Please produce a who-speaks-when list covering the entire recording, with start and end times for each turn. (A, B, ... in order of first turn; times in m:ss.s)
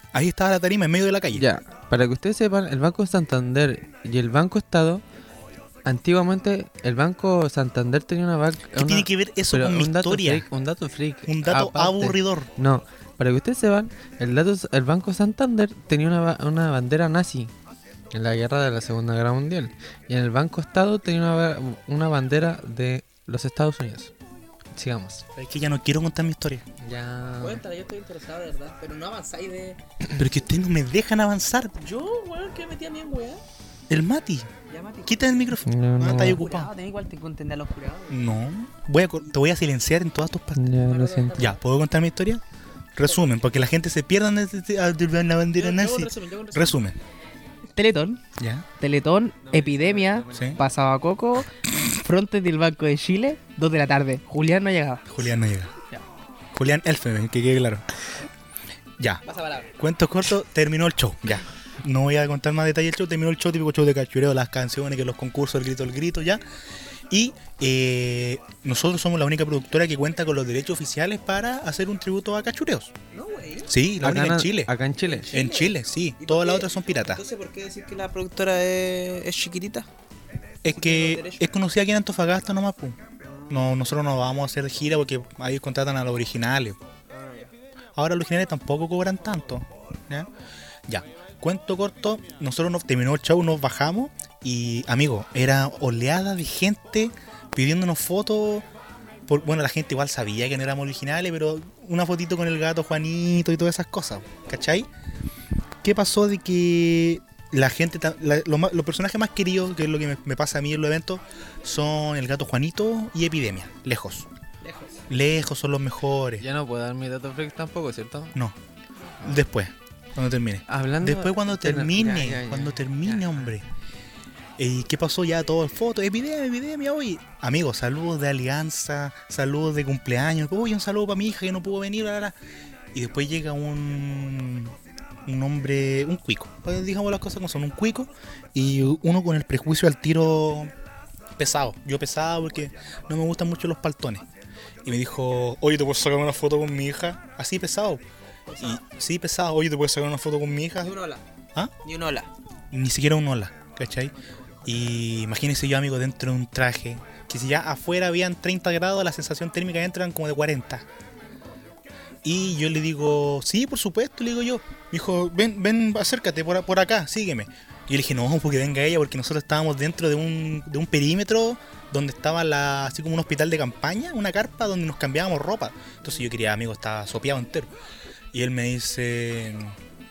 0:00.1-0:01.4 A
0:01.3-0:05.0 B
0:05.8-0:17.5 B
0:08.8-0:10.5 A
0:11.3-0:12.5 A
0:18.1-0:24.1 B
0:24.8-0:25.2 B
0:25.4-0:26.6 A
0:26.8-0:27.6 B
0:27.4-0:29.8 C
0:30.2-0:31.8 A
0:31.8-0:33.4 C
0:33.9-0:34.5 A
0:34.7-0:35.4 C
0:35.1-0:36.7 A
0:35.6-0:36.4 B
0:36.1-0:38.2 C
0:38.1-0:40.7 A
0:40.6-0:41.5 B
0:40.8-0:41.6 C
0:41.4-0:42.4 A
0:43.0-0:47.0 A
0:45.6-0:46.8 C
0:47.8-0:48.2 C
0:48.4-0:48.7 A
0:48.8-0:55.0 C
0:49.5-0:50.6 B
0:50.3-0:50.6 A
0:55.1-0:55.7 A
0:56.5-0:57.8 A
0:59.3-0:59.7 C
0:59.8-1:06.4 A
1:07.1-1:12.9 A
1:13.1-1:13.7 C
1:13.7-1:14.7 A
1:14.0-1:15.3 B
1:15.1-1:19.9 C
1:15.3-1:17.2 A
1:20.6-1:23.0 A
1:20.7-1:21.5 C
1:23.2-1:23.7 C
1:23.5-1:26.8 A
1:27.1-1:27.5 C
1:28.0-1:30.3 A
1:30.9-1:38.7 A
1:39.3-1:44.9 A
1:45.8-1:54.3 A
1:54.6-1:55.0 C
1:55.1-1:56.4 A
1:56.4-1:58.4 B
1:59.2-2:03.7 A
2:00.7-2:03.6 B
2:04.6-2:12.4 A
2:12.9-2:20.7 A
2:21.4-2:24.2 A
2:24.8-2:28.0 A
2:28.5-2:28.8 C
2:28.6-2:31.0 A
2:30.8-2:31.2 C
2:31.8-2:32.3 C
2:32.7-2:34.1 A
2:34.6-2:40.9 A
2:42.2-2:57.7 A
2:58.3-2:59.8 A